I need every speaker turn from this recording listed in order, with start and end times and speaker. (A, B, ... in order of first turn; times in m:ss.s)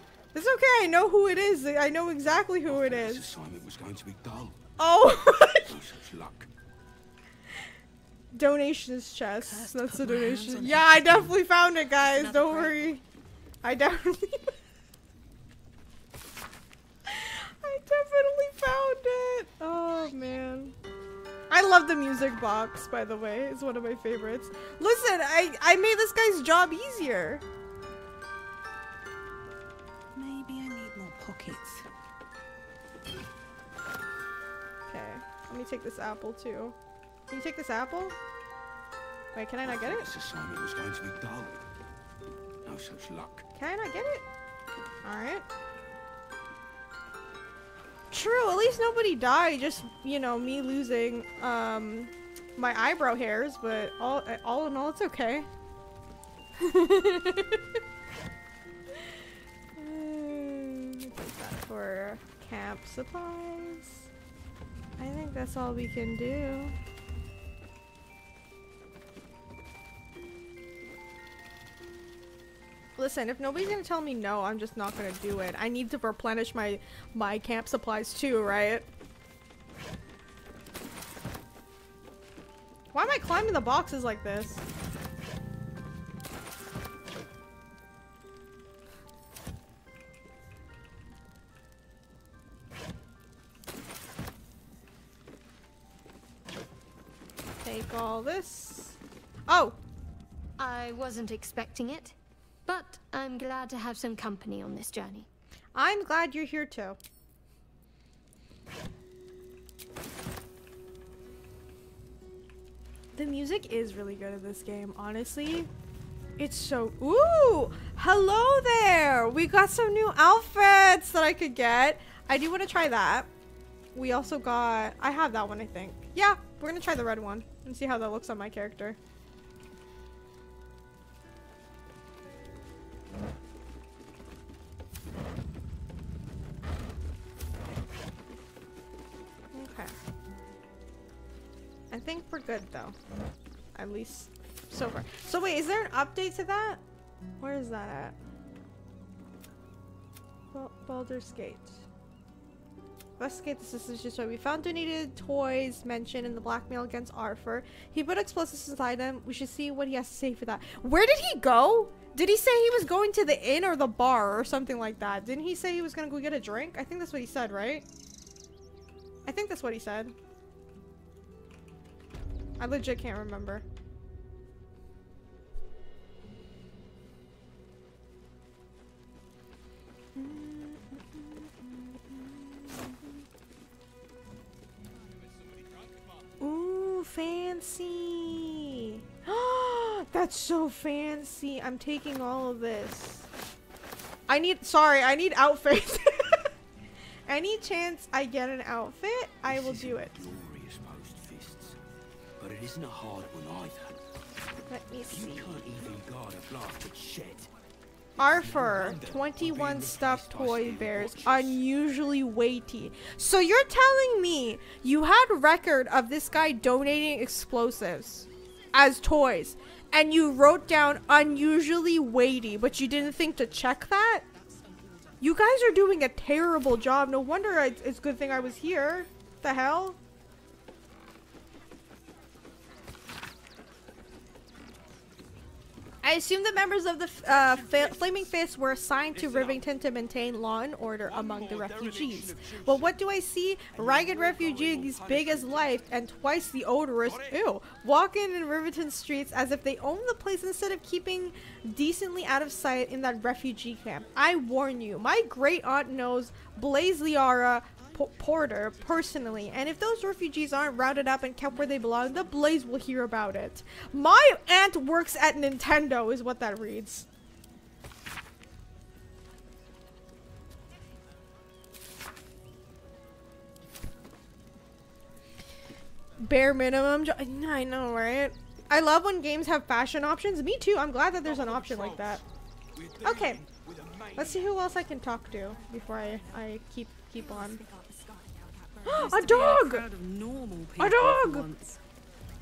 0:00.3-0:03.2 A
0:02.6-0:04.6 B
0:04.8-0:05.7 A
0:05.6-0:06.5 B
0:08.3-0:13.0 A
0:09.4-0:11.4 C
0:12.0-0:13.0 C
0:13.6-0:14.5 A
0:17.1-0:20.7 A
0:21.5-0:27.4 A
0:30.1-0:31.8 C
0:34.9-0:36.8 A
0:37.3-0:38.1 A
0:39.3-0:40.1 A
0:39.6-0:41.6 B
0:42.6-0:43.4 B
0:43.6-0:44.2 A
0:45.0-0:45.4 A
0:48.1-0:55.5 A
0:56.6-0:57.6 A
0:59.8-1:04.1 A
1:05.0-1:06.7 A
1:13.0-1:18.9 A
1:22.9-1:24.6 A
1:37.6-1:39.8 A
1:40.6-1:42.1 D
1:42.7-1:45.3 D
1:45.7-1:47.0 A
1:53.2-1:55.7 A
1:56.4-2:03.3 A
2:03.9-2:09.0 A
2:19.5-2:19.9 A
2:21.9-2:23.0 A
2:23.7-2:26.8 A
2:27.4-2:28.2 A
2:30.5-2:31.8 A
2:33.2-2:47.8 A
2:49.2-2:50.1 A
2:52.6-2:53.6 A
3:00.1-3:03.0 A
3:06.4-3:13.3 A
3:14.3-3:16.5 A
3:17.3-3:20.2 A
3:19.4-3:21.8 B
3:22.4-3:24.0 B
3:24.7-3:25.6 A
3:25.1-3:27.5 B
3:28.2-3:44.2 A
3:28.2-3:31.6 B
3:45.2-3:50.0 A
3:56.0-4:27.0 A
4:02.1-4:02.5 B
4:04.3-4:05.3 B
4:36.2-4:42.2 A
4:43.0-4:43.4 A
4:44.1-4:47.6 A
4:47.1-4:49.8 C
4:48.8-4:49.8 A
4:50.6-4:51.8 C
4:50.8-4:51.5 A